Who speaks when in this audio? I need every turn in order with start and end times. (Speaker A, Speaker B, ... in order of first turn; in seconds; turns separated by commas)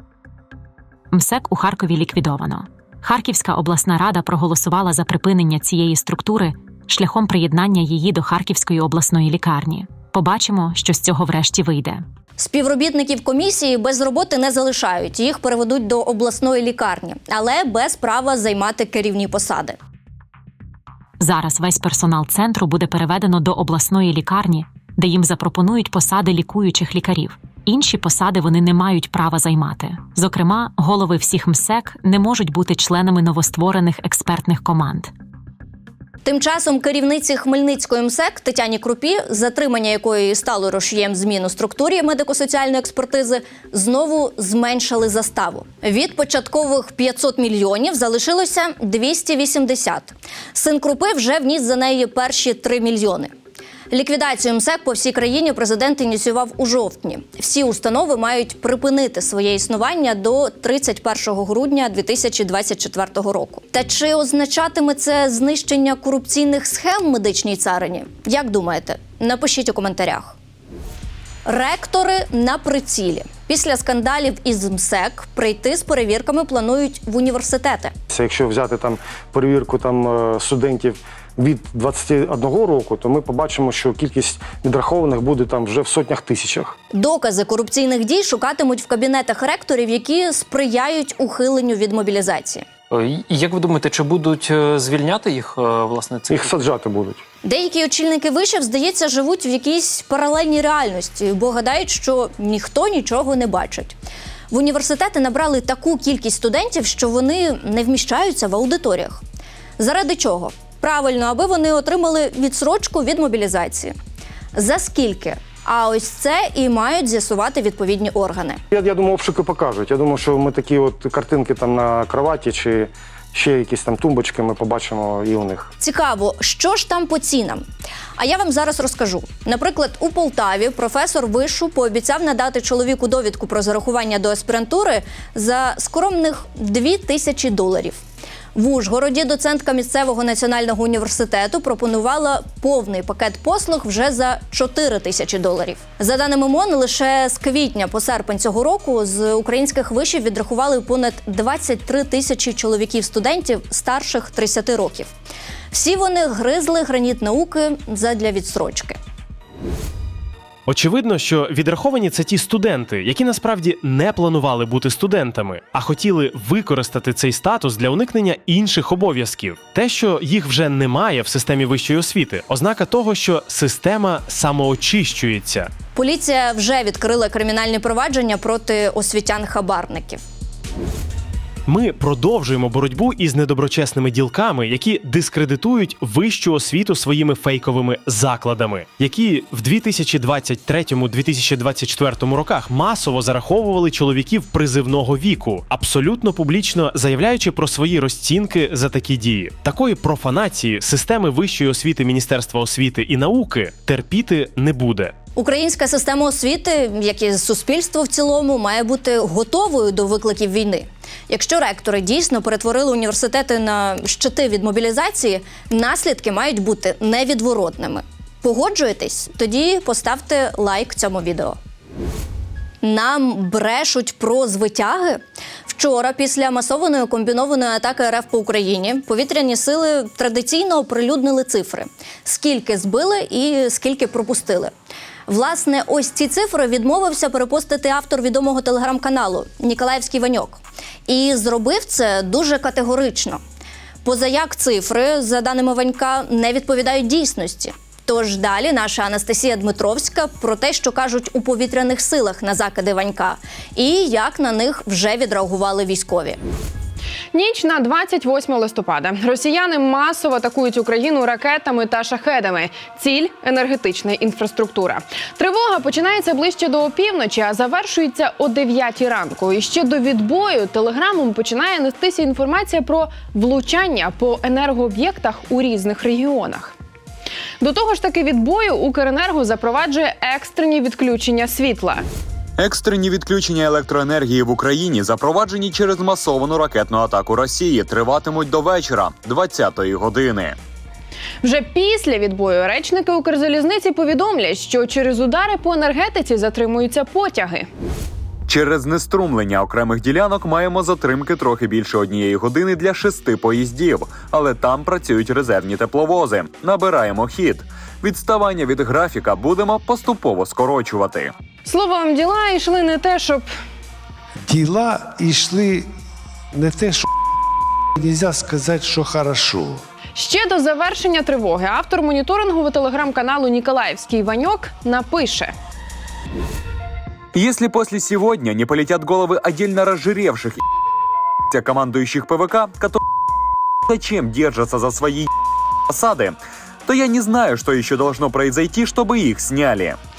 Speaker A: 1.1-12.0, Speaker B: 12.4-19.8, Speaker A: 21.2-35.1, Speaker B: 36.2-53.3, Speaker B: 53.9-70.3, Speaker B: 71.4-77.9, Speaker C: 78.1-86.8, Speaker B: 86.9-92.6, Speaker D: 92.9-96.3, Speaker C: 96.3-97.2, Speaker B: 97.4-103.9, Speaker B: 104.5-109.2, Speaker B: 109.8-113.9, Speaker B: 114.5-118.6, Speaker C: 118.7-125.7, Speaker B: 125.8-127.6, Speaker B: 128.2-138.0, Speaker B: 138.5-155.1, Speaker B: 155.7-159.0, Speaker E: 160.7-175.7, Speaker B: 175.9-180.2, Speaker E: 181.7-205.1, Speaker B: 205.3-221.6, Speaker B: 222.8-234.7, Speaker B: 235.3-243.4, Speaker B: 244.0-256.4, Speaker F: 257.3-276.7, Speaker F: 277.6-282.0, Speaker G: 282.6-290.6, Speaker F: 291.4-297.6, Speaker G: 298.5-311.3, Speaker F: 311.6-313.4, Speaker H: 314.4-315.9, Speaker H: 316.5-317.1, Speaker H: 318.0-319.8, Speaker F: 320.1-325.5, Speaker G: 327.3-330.6, Speaker G: 331.5-333.0, Speaker G: 333.9-335.3, Speaker G: 335.9-340.0